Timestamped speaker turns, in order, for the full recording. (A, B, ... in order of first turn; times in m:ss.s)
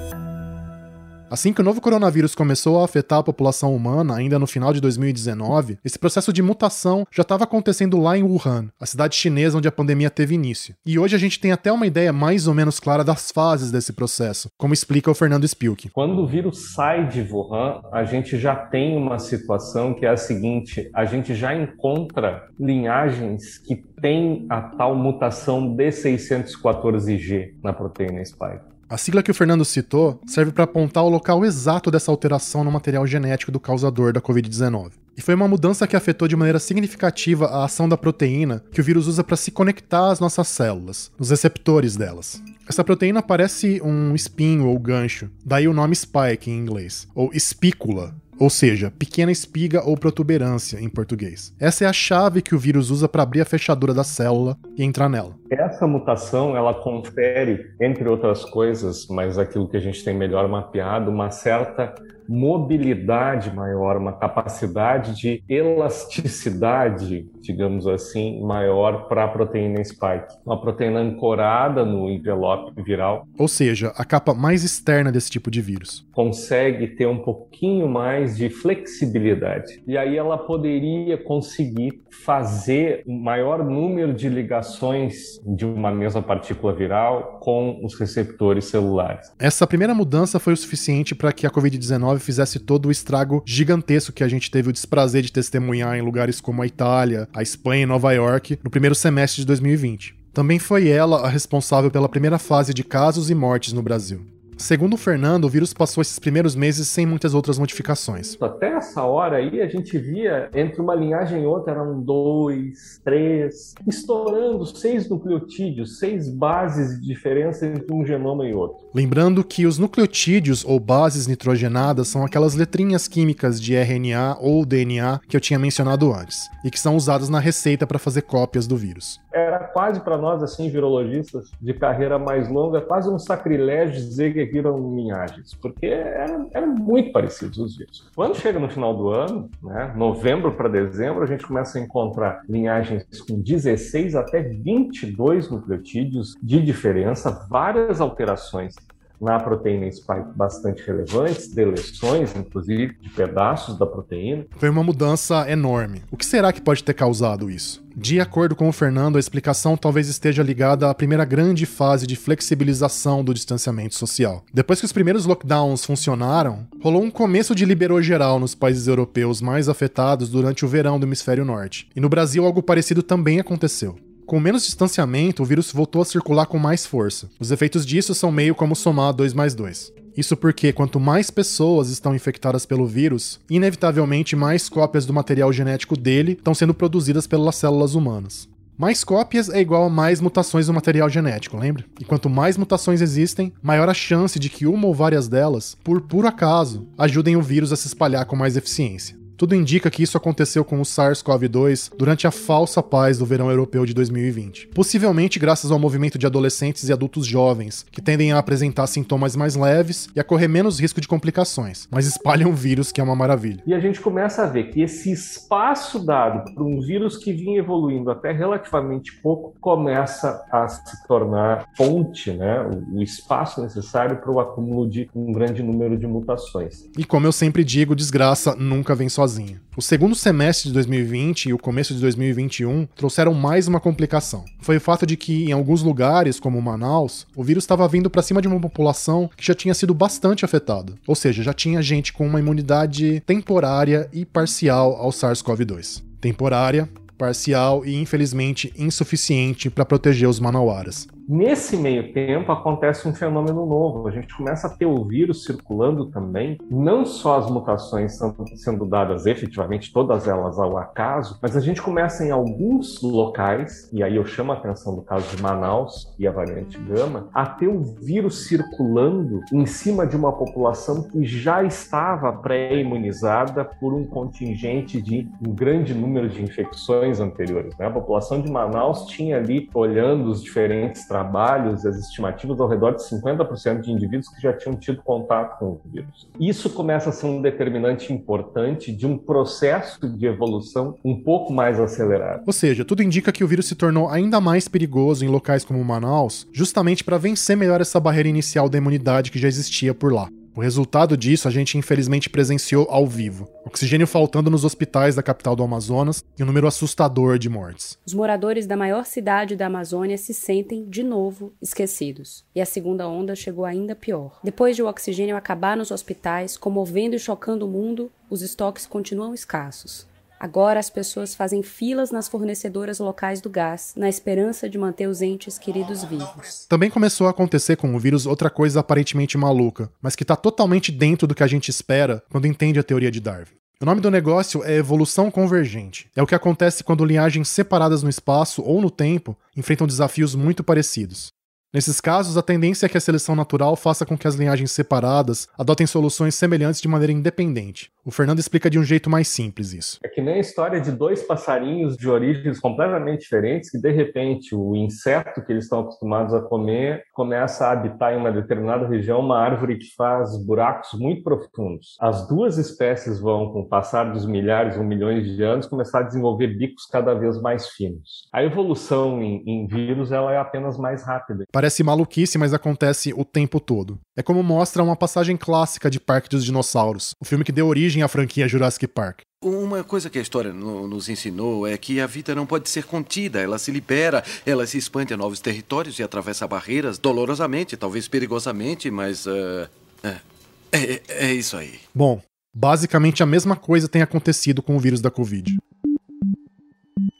0:01.3-0:15.9 A
0:15.9-0:28.7 B
0:28.9-0:55.4 A
0:55.5-1:13.3 B
1:13.4-1:16.0 A
1:16.1-1:29.3 B
1:29.4-1:48.4 A
1:48.4-1:58.8 B
1:58.9-2:09.2 A
2:09.3-2:34.5 B
2:34.6-3:33.6 A
3:33.6-3:46.9 B
3:46.9-4:11.1 A
4:11.3-4:52.4 B
4:52.4-5:08.0 A
5:08.0-5:26.6 C
5:26.7-5:50.0 A
5:50.0-6:11.5 B
6:11.5-6:19.2 A
6:19.4-6:31.8 D
6:31.9-6:35.6 A